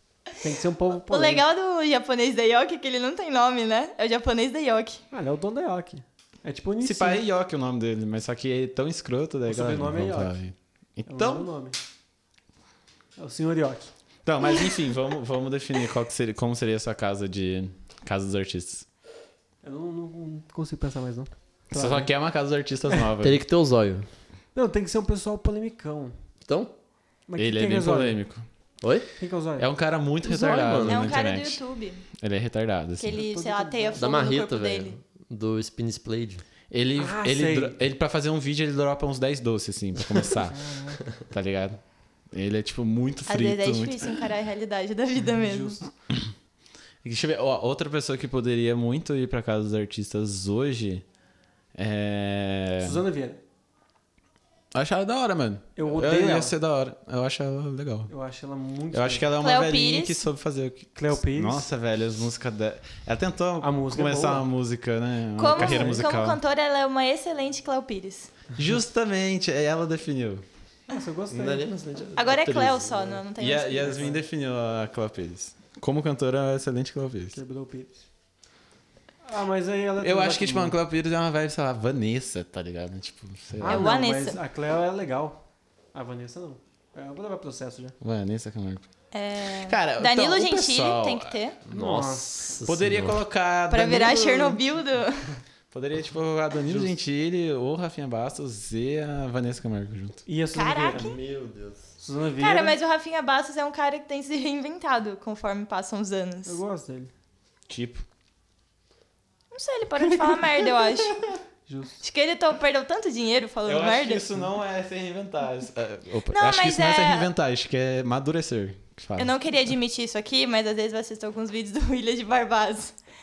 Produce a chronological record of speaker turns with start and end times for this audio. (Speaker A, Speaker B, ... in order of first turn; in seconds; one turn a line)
Speaker A: 0.4-1.4
Speaker B: 1.1-5.0
Speaker A: 5.1-7.2
Speaker C: 6.8-11.5
Speaker A: 9.5-10.4
Speaker A: 11.1-11.8
Speaker A: 13.2-13.9
Speaker C: 14.2-18.8
Speaker A: 19.6-22.1
Speaker C: 21.7-23.4
Speaker D: 23.2-24.1
Speaker A: 24.5-26.1
Speaker D: 26.4-26.7
Speaker A: 27.3-28.2
Speaker C: 27.4-28.4
Speaker D: 28.8-29.1
Speaker A: 29.2-29.7
Speaker C: 29.6-33.2
Speaker D: 30.2-31.2
Speaker B: 30.8-32.0
Speaker B: 33.0-35.0
Speaker A: 33.1-34.1
Speaker D: 34.0-36.4
Speaker C: 36.7-40.6
Speaker A: 37.0-37.8
Speaker A: 40.5-41.0
Speaker C: 41.1-41.8
Speaker C: 42.3-44.2
Speaker B: 43.3-45.8
Speaker A: 45.4-45.9
Speaker C: 47.0-51.0
Speaker C: 51.7-53.0
Speaker A: 52.8-53.4
Speaker C: 54.7-58.1
Speaker A: 55.8-56.5
Speaker A: 58.1-59.3
Speaker C: 58.9-66.4
Speaker B: 59.4-60.2
Speaker A: 60.9-61.7
Speaker A: 63.6-64.5
Speaker B: 65.4-68.3
Speaker A: 65.5-66.0
Speaker C: 68.5-70.4
Speaker A: 70.9-71.7
Speaker D: 71.3-73.2
Speaker B: 72.2-74.1
Speaker C: 73.4-77.4
Speaker A: 73.9-74.2
Speaker A: 77.3-78.0
Speaker A: 79.2-80.8
Speaker C: 80.0-83.9
Speaker A: 83.6-85.4
Speaker B: 83.6-84.4
Speaker A: 85.9-87.9
Speaker C: 88.0-88.8
Speaker B: 89.1-91.6
Speaker C: 89.6-91.4
Speaker D: 91.7-93.2
Speaker A: 91.7-92.5
Speaker C: 92.7-94.6
Speaker B: 93.7-95.3
Speaker C: 95.7-100.2
Speaker A: 100.2-101.1
Speaker B: 100.5-101.2
Speaker D: 100.9-101.8
Speaker A: 102.0-102.8
Speaker B: 102.4-106.6
Speaker A: 106.5-107.1
Speaker C: 107.7-108.0
Speaker B: 109.5-111.2
Speaker A: 111.7-112.0
Speaker B: 112.0-114.2
Speaker C: 113.6-119.3
Speaker B: 116.3-117.3
Speaker B: 119.2-122.9